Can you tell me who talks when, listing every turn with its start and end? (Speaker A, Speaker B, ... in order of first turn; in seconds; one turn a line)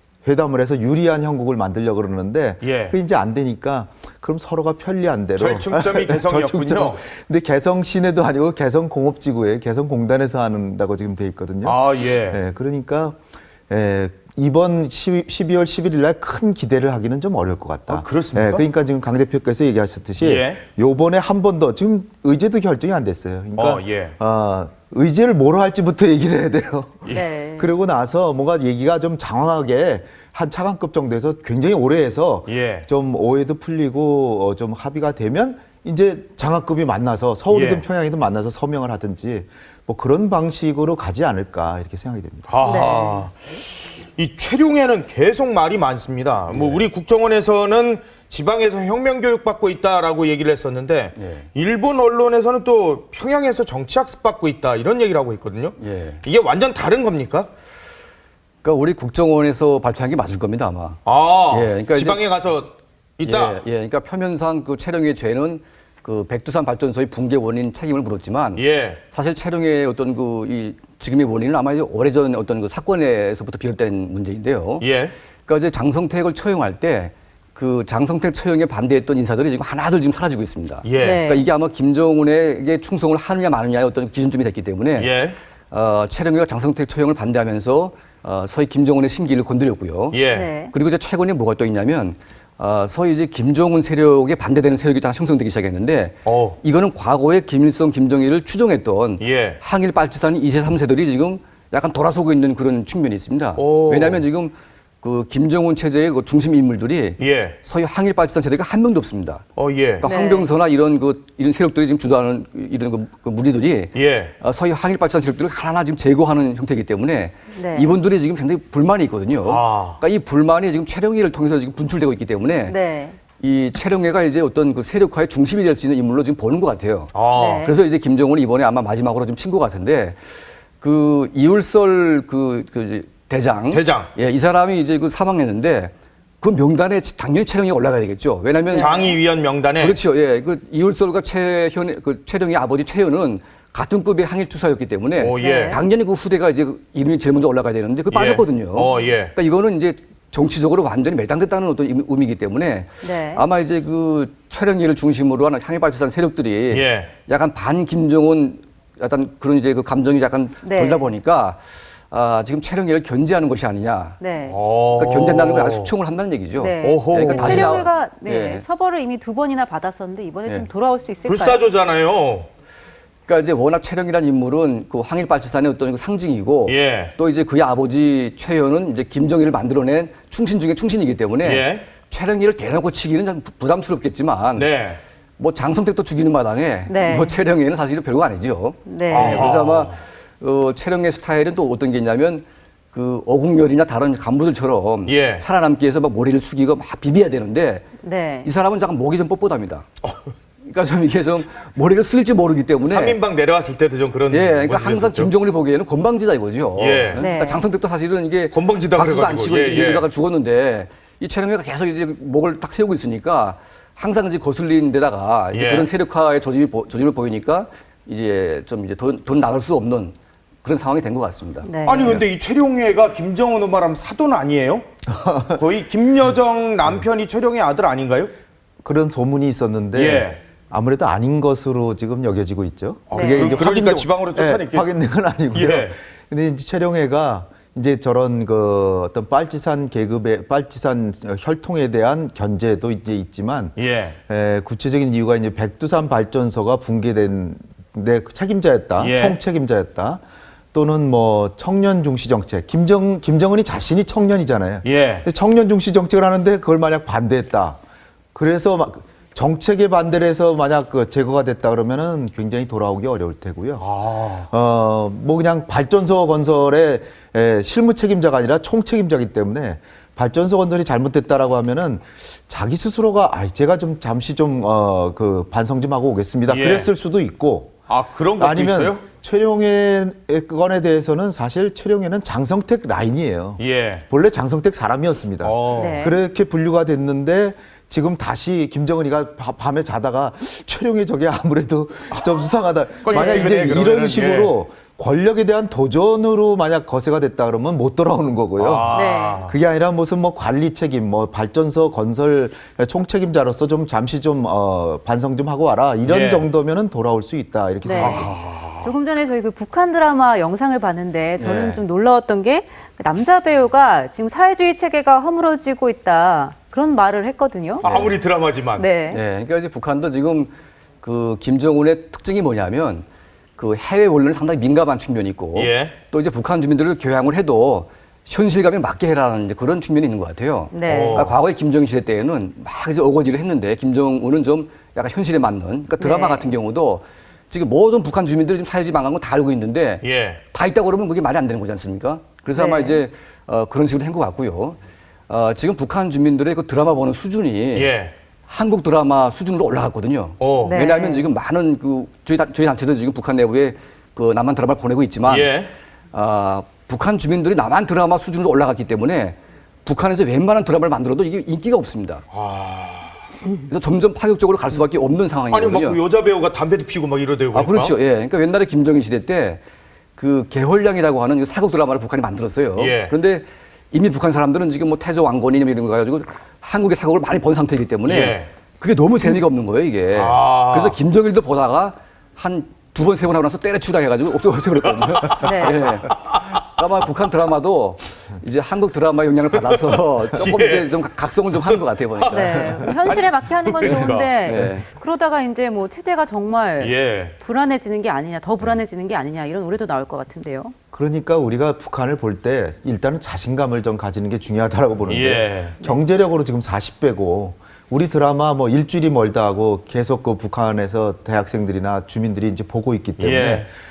Speaker A: 0.2-13.2
Speaker B: 2.6-3.0
Speaker B: 5.4-7.0
Speaker B: 11.6-12.4
Speaker A: 13.7-42.9
Speaker B: 17.9-18.7
Speaker B: 20.2-20.6
Speaker B: 23.6-24.1
Speaker C: 27.1-27.7
Speaker B: 32.5-32.9
Speaker B: 37.5-37.9
Speaker B: 42.5-57.5
Speaker C: 42.6-43.2
Speaker D: 46.5-46.9
Speaker D: 51.2-51.5
Speaker D: 55.8-56.2
Speaker D: 58.6-61.0
Speaker B: 61.0-63.6
Speaker D: 61.5-62.2
Speaker D: 63.2-74.9
Speaker B: 68.6-69.0
Speaker B: 74.8-75.1
Speaker D: 75.5-85.2
Speaker B: 80.8-81.2
Speaker C: 81.0-81.5
Speaker B: 85.0-85.3
Speaker D: 85.7-109.4
Speaker B: 90.1-90.5
Speaker C: 90.3-90.7
Speaker B: 96.2-96.6
Speaker B: 99.2-99.6
Speaker B: 103.6-104.2
Speaker B: 107.2-107.6
Speaker B: 109.6-110.1
Speaker D: 110.0-122.8
Speaker C: 110.0-110.5
Speaker B: 114.0-114.3
Speaker C: 117.5-117.9
Speaker B: 119.4-120.0
Speaker C: 122.7-123.2
Speaker D: 123.4-130.2
Speaker B: 127.1-127.5
Speaker C: 127.3-127.8
Speaker D: 130.8-139.1
Speaker B: 133.7-134.1
Speaker C: 138.7-139.2
Speaker B: 138.7-140.0
Speaker D: 139.8-161.6
Speaker B: 145.2-145.8
Speaker C: 145.4-145.8
Speaker B: 148.1-149.3
Speaker C: 153.0-153.4
Speaker B: 156.7-157.1
Speaker C: 160.6-161.1
Speaker D: 162.1-164.2
Speaker C: 164.2-164.6
Speaker B: 164.5-165.9
Speaker D: 164.9-168.7
Speaker C: 166.6-171.6
Speaker B: 166.8-167.9
Speaker B: 171.3-172.5
Speaker D: 173.3-184.7
Speaker B: 176.7-177.1
Speaker B: 181.4-181.8
Speaker B: 184.6-185.0
Speaker D: 185.4-197.9
Speaker C: 186.9-187.3
Speaker C: 188.9-189.6
Speaker B: 189.1-189.9
Speaker B: 195.1-195.4
Speaker C: 198.0-198.5
Speaker D: 198.4-199.9
Speaker D: 200.6-203.2
Speaker B: 202.8-205.3
Speaker D: 204.3-221.7
Speaker B: 206.8-207.3
Speaker C: 207.2-207.6
Speaker B: 208.5-210.1
Speaker B: 215.5-215.9
Speaker C: 221.6-222.1
Speaker B: 221.8-224.9
Speaker A: 225.1-225.6
Speaker B: 225.6-228.3
Speaker A: 228.8-243.8
Speaker B: 229.9-230.4
Speaker B: 233.1-234.9
Speaker C: 233.1-233.5
Speaker B: 235.5-236.0
Speaker B: 243.8-244.2
Speaker A: 244.3-250.2
Speaker B: 249.0-249.4
Speaker A: 250.7-257.8
Speaker B: 254.8-255.3
Speaker A: 258.4-263.9
Speaker B: 263.8-264.5
Speaker A: 264.5-277.8
Speaker B: 276.5-276.9
Speaker B: 277.9-279.0
Speaker A: 278.4-308.4
Speaker B: 283.6-284.0
Speaker B: 285.4-285.9
Speaker C: 285.7-286.2
Speaker B: 292.1-292.4
Speaker B: 293.0-294.5
Speaker C: 293.1-293.5
Speaker B: 298.6-299.6
Speaker C: 298.9-299.4
Speaker B: 306.1-306.5
Speaker C: 307.8-308.3
Speaker B: 307.9-308.9
Speaker C: 308.8-317.8
Speaker D: 311.4-311.8
Speaker D: 317.8-318.2
Speaker B: 317.8-318.9
Speaker C: 318.8-319.2
Speaker D: 319.1-320.5
Speaker D: 321.0-323.1
Speaker D: 323.6-347.9
Speaker B: 325.6-325.9
Speaker C: 330.7-331.1
Speaker B: 330.9-331.3
Speaker C: 336.0-336.5
Speaker B: 340.0-340.4
Speaker C: 342.5-343.0
Speaker B: 347.7-348.1
Speaker D: 348.5-355.5
Speaker B: 350.4-350.8
Speaker C: 350.6-351.3
Speaker B: 355.2-355.7
Speaker D: 356.1-362.2
Speaker B: 362.3-363.2
Speaker D: 363.7-366.0
Speaker B: 365.5-368.0
Speaker D: 367.5-369.6
Speaker D: 370.2-392.9
Speaker B: 372.8-373.1
Speaker B: 378.1-378.5
Speaker B: 380.1-381.0
Speaker B: 385.1-386.0
Speaker C: 385.4-385.8
Speaker B: 389.8-391.0
Speaker B: 391.5-394.3
Speaker C: 392.3-400.8
Speaker D: 393.8-394.9
Speaker B: 396.8-397.3
Speaker A: 400.9-413.7
Speaker B: 405.1-405.8
Speaker B: 413.2-413.7